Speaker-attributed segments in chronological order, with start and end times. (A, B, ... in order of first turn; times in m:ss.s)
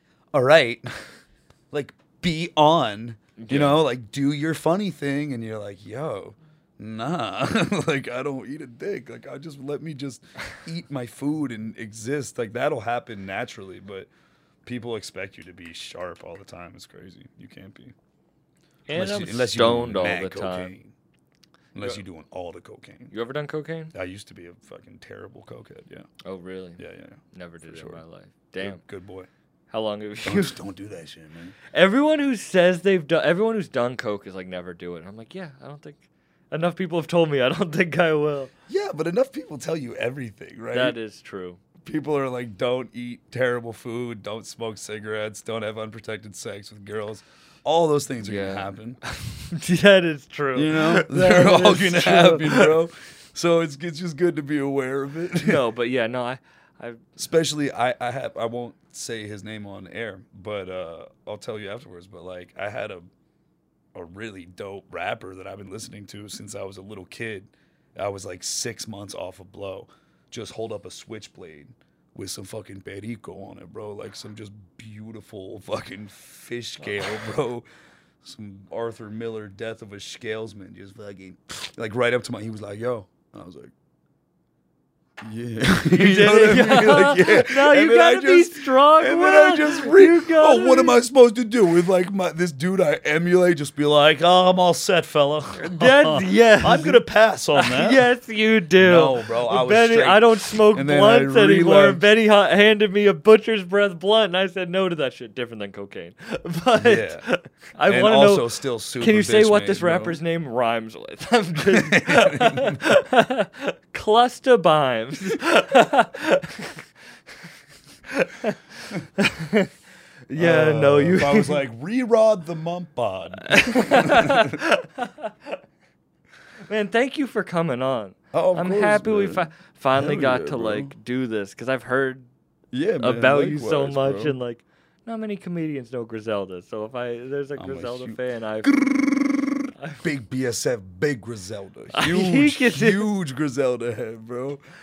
0:00.3-0:01.0 A
0:01.7-0:14.1 A
0:03.4-0:03.8 B
0:14.6-0:17.9 A
0:18.9-0:20.8 B
0:18.9-0:20.9 A
0:21.7-0:23.1 A
0:23.1-0:23.9 B
0:23.9-0:26.1 A
0:26.2-0:28.8 B
0:26.8-0:28.0 A
0:28.6-0:29.3 A
0:29.7-0:30.6 B
0:30.2-0:31.6 A
0:31.7-0:38.5 B
0:38.7-0:41.0 A
0:40.7-0:41.6 B
0:41.8-0:49.0 A
0:48.2-0:52.7 B
0:50.5-0:55.6 A
0:55.4-0:57.0 B
0:57.2-1:03.1 A
1:03.9-1:17.6 A
1:18.2-1:23.7 A
1:25.2-1:38.0 A
1:25.7-1:31.0 B
1:35.6-1:37.0 B
1:37.5-1:56.8 B
1:38.8-1:42.0 A
1:46.7-1:47.3 A
1:47.8-1:50.2 A
1:51.7-1:52.8 A
1:58.1-1:59.7 B
2:00.3-2:01.6 B
2:00.3-2:04.6 A
2:03.5-2:05.3 B
2:06.6-2:12.3 B
2:08.3-2:10.9 A
2:12.7-2:14.4 A
2:13.0-2:18.7 B
2:17.6-2:24.6 A
2:19.8-2:20.0 B
2:21.9-2:23.1 B